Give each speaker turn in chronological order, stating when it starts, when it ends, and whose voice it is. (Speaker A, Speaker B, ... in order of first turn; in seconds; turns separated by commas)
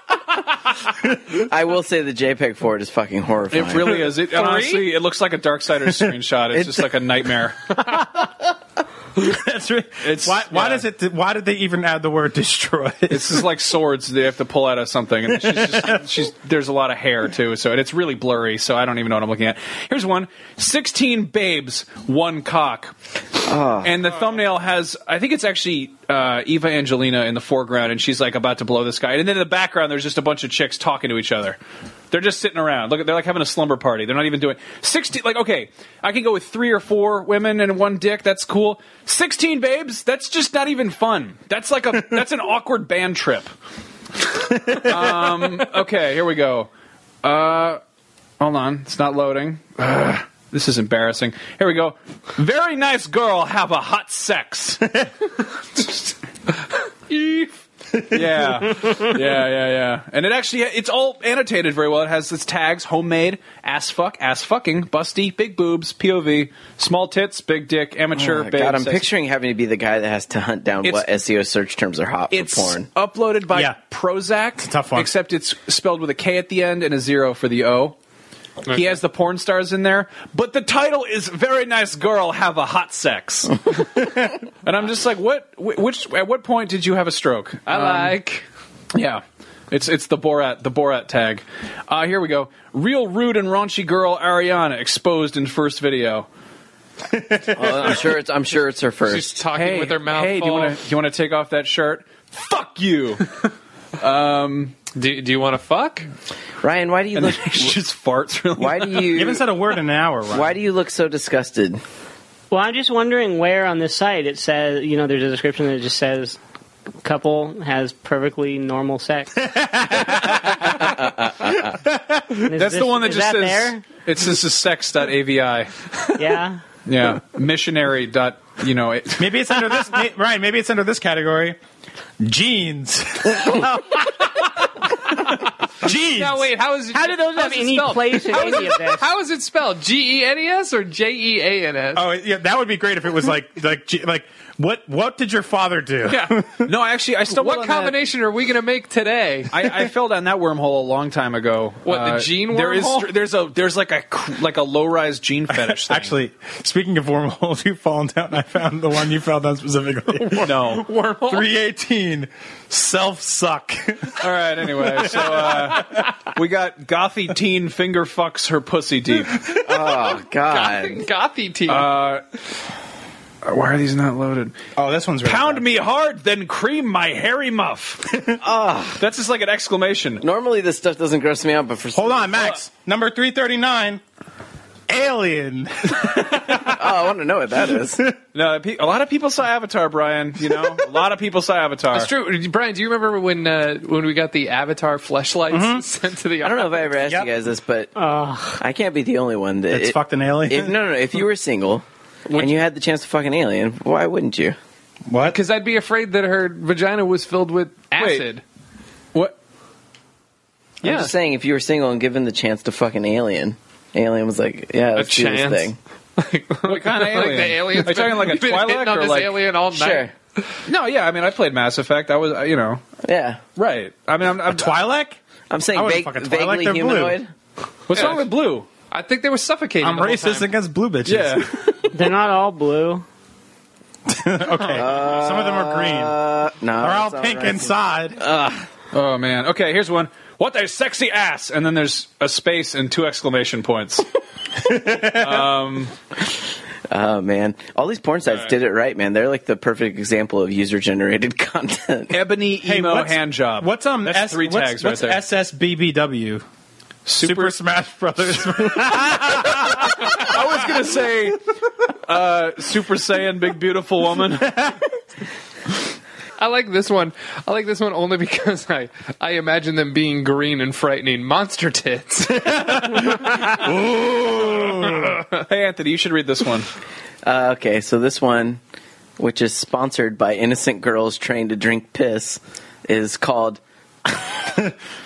Speaker A: 1.5-4.0, Speaker B: 3.5-7.8, Speaker C: 4.1-4.9, Speaker A: 6.5-6.8, Speaker D: 9.2-13.5, Speaker B: 10.0-10.9, Speaker B: 13.1-22.9, Speaker D: 15.3-16.0, Speaker A: 23.4-24.1, Speaker B: 23.8-31.6, Speaker B: 32.1-43.5, Speaker D: 44.5-44.8, Speaker B: 44.7-46.7, Speaker B: 47.2-47.8, Speaker B: 48.4-55.0, Speaker C: 57.1-57.5, Speaker D: 57.9-58.7, Speaker B: 58.1-69.1, Speaker A: 68.2-72.9, Speaker B: 72.3-78.0, Speaker D: 73.5-73.7, Speaker D: 74.6-75.1, Speaker B: 78.7-84.1, Speaker B: 84.6-88.1, Speaker C: 87.7-88.4, Speaker B: 88.9-96.3, Speaker D: 97.1-98.0, Speaker A: 97.5-99.4, Speaker C: 99.0-100.8, Speaker B: 99.5-103.4, Speaker B: 104.0-104.8, Speaker C: 104.9-106.0, Speaker A: 106.6-107.8, Speaker B: 107.1-109.2, Speaker A: 108.6-109.4, Speaker D: 109.1-110.5, Speaker A: 110.3-111.8, Speaker E: 112.5-116.4, Speaker E: 117.0-119.5, Speaker D: 119.4-120.8, Speaker A: 120.8-121.7, Speaker D: 121.6-122.5, Speaker E: 122.4-123.8, Speaker B: 122.5-126.2, Speaker E: 126.2-126.6, Speaker B: 126.9-129.7, Speaker D: 129.2-131.6, Speaker D: 132.2-135.2, Speaker D: 135.8-136.5, Speaker C: 135.9-142.0, Speaker E: 136.9-139.1, Speaker D: 141.9-146.7, Speaker C: 146.1-146.4, Speaker B: 146.6-148.0, Speaker C: 147.2-149.8, Speaker B: 149.5-156.1, Speaker C: 151.9-153.1, Speaker D: 155.5-160.6, Speaker C: 160.1-161.5, Speaker B: 160.4-160.9, Speaker D: 161.2-165.9, Speaker B: 164.2-169.4, Speaker A: 169.6-171.1, Speaker C: 170.4-171.9, Speaker B: 171.7-172.2, Speaker B: 173.4-174.5, Speaker D: 174.8-175.6, Speaker B: 175.2-178.2, Speaker D: 178.1-178.4, Speaker A: 178.4-179.0, Speaker B: 179.0-180.2, Speaker A: 180.2-182.6, Speaker D: 181.9-184.0, Speaker D: 184.9-186.8, Speaker A: 186.5-188.0, Speaker B: 188.3-192.1, Speaker C: 191.9-196.9, Speaker D: 195.5-195.8, Speaker A: 196.4-197.9, Speaker E: 198.0-198.6, Speaker A: 198.6-204.6, Speaker D: 199.7-200.7, Speaker C: 202.3-202.5, Speaker D: 205.1-205.4, Speaker C: 205.3-208.4, Speaker B: 207.9-208.4, Speaker A: 210.8-215.8, Speaker C: 210.9-211.1, Speaker C: 214.9-220.6, Speaker B: 216.6-219.4, Speaker A: 219.7-220.1, Speaker B: 220.7-222.8, Speaker A: 223.0-223.4, Speaker B: 223.6-224.8, Speaker D: 224.5-225.2, Speaker A: 225.5-227.3, Speaker D: 225.7-227.2, Speaker B: 227.9-228.7, Speaker C: 227.9-228.3, Speaker C: 228.9-230.5, Speaker D: 229.8-231.4, Speaker B: 231.1-231.9, Speaker E: 231.9-233.0, Speaker D: 234.1-236.2, Speaker A: 234.7-238.6, Speaker D: 236.8-238.2, Speaker B: 238.9-244.0, Speaker D: 244.6-245.5, Speaker B: 245.0-245.9, Speaker A: 246.9-252.2, Speaker B: 252.1-255.2, Speaker D: 252.6-256.4, Speaker B: 257.1-257.5, Speaker D: 257.2-260.4, Speaker B: 259.6-264.7, Speaker D: 264.5-264.8, Speaker C: 266.4-273.7, Speaker D: 272.3-275.1, Speaker C: 274.6-275.4, Speaker B: 275.4-276.7, Speaker A: 277.2-278.6, Speaker A: 279.2-283.6, Speaker D: 284.4-284.7